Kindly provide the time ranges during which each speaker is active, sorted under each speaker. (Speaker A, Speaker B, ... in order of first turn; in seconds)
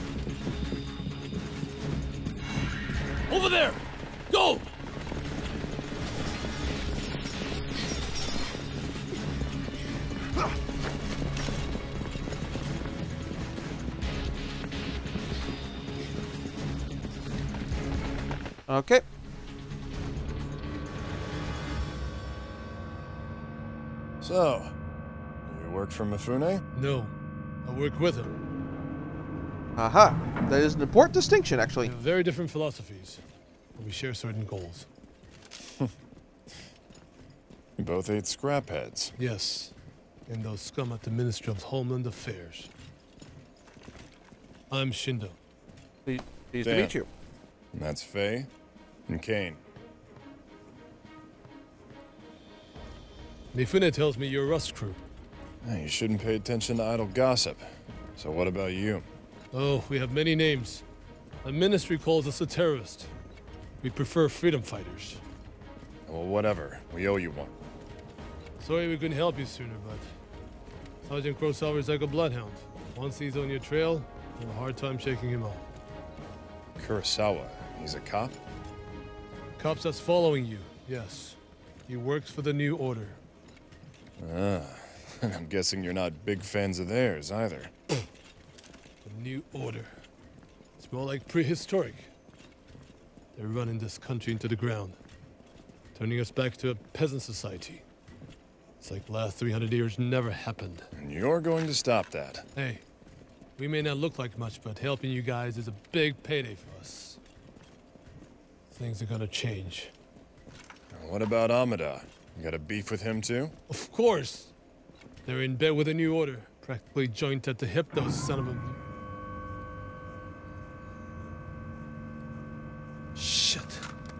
Speaker A: 3.3-4.6, 26.7-27.1, 27.6-28.3, 31.8-33.2, 33.8-34.9, 39.2-39.7, 40.3-42.7, 44.7-45.4, 53.5-55.0, 59.5-60.8, 61.4-63.1, 63.8-65.2, 68.6-70.1, 71.1-75.7, 79.6-83.2, 89.0-89.9, 90.8-92.1, 93.3-95.0, 95.9-97.8, 98.8-100.9, 102.5-102.8, 103.6-107.2, 108.7-109.9, 113.7-114.5, 115.2-118.8, 123.2-123.8
Speaker B: 18.7-19.0, 29.8-31.9, 46.0-47.1
Speaker C: 24.2-24.7, 25.4-26.6, 35.6-35.9, 37.8-39.1, 46.6-46.9, 47.7-48.5, 49.1-49.6, 55.6-59.1, 66.0-67.5, 76.8-78.4, 84.2-87.7, 100.9-102.4, 110.9-113.5